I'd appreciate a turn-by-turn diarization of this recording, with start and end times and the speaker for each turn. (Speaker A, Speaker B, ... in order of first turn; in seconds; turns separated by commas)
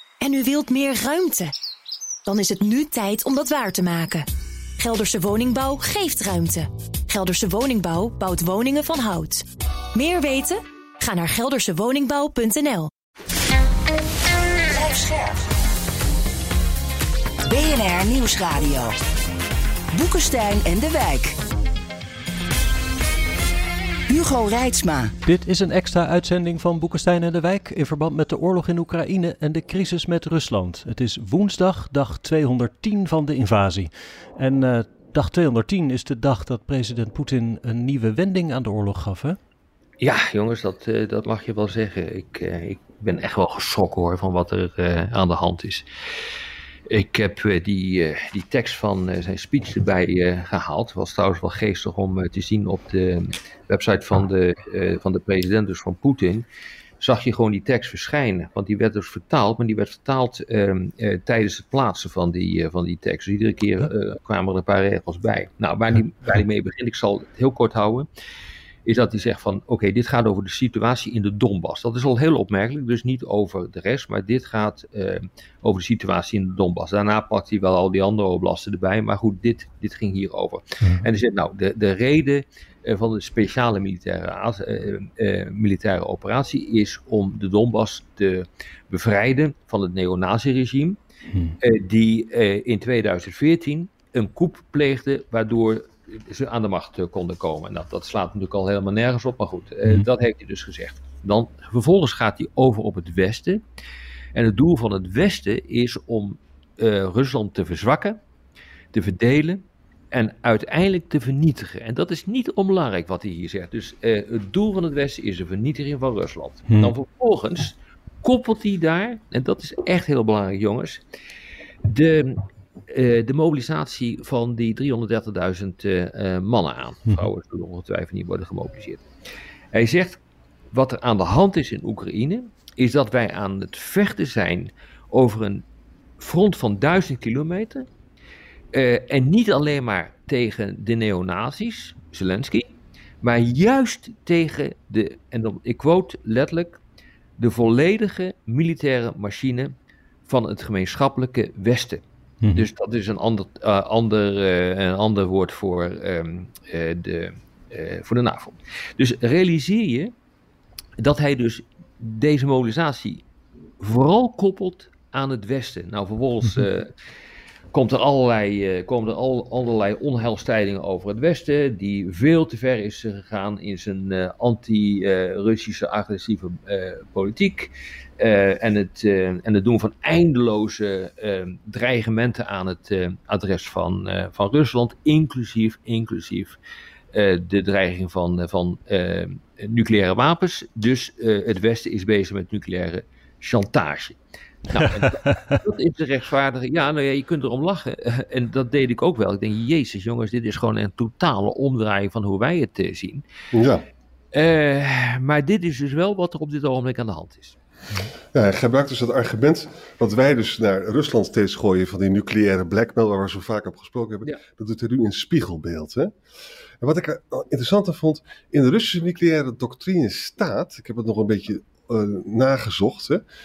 Speaker A: 0.2-1.5, Speaker A: 2.2-4.2, Speaker A: 4.8-12.9, Speaker B: 14.7-15.4, Speaker B: 17.4-18.9, Speaker B: 19.9-21.4, Speaker B: 24.1-25.1, Speaker C: 25.2-39.4, Speaker D: 40.0-45.8, Speaker D: 46.9-56.4, Speaker D: 57.0-68.1, Speaker D: 68.8-91.0, Speaker C: 91.3-91.5, Speaker D: 91.6-103.6, Speaker D: 104.3-108.2, Speaker D: 108.9-121.0, Speaker D: 121.8-129.0, Speaker D: 129.7-130.2, Speaker D: 130.7-135.6, Speaker D: 136.2-137.9, Speaker D: 138.7-146.8, Speaker D: 147.4-149.7, Speaker D: 150.3-160.1, Speaker C: 152.4-152.7, Speaker D: 161.0-163.2, Speaker D: 163.8-166.9, Speaker D: 167.7-186.6, Speaker D: 187.1-194.2, Speaker D: 194.7-203.2, Speaker C: 194.8-195.6, Speaker E: 203.5-203.8, Speaker D: 204.3-207.6, Speaker E: 208.3-216.1, Speaker E: 216.8-223.2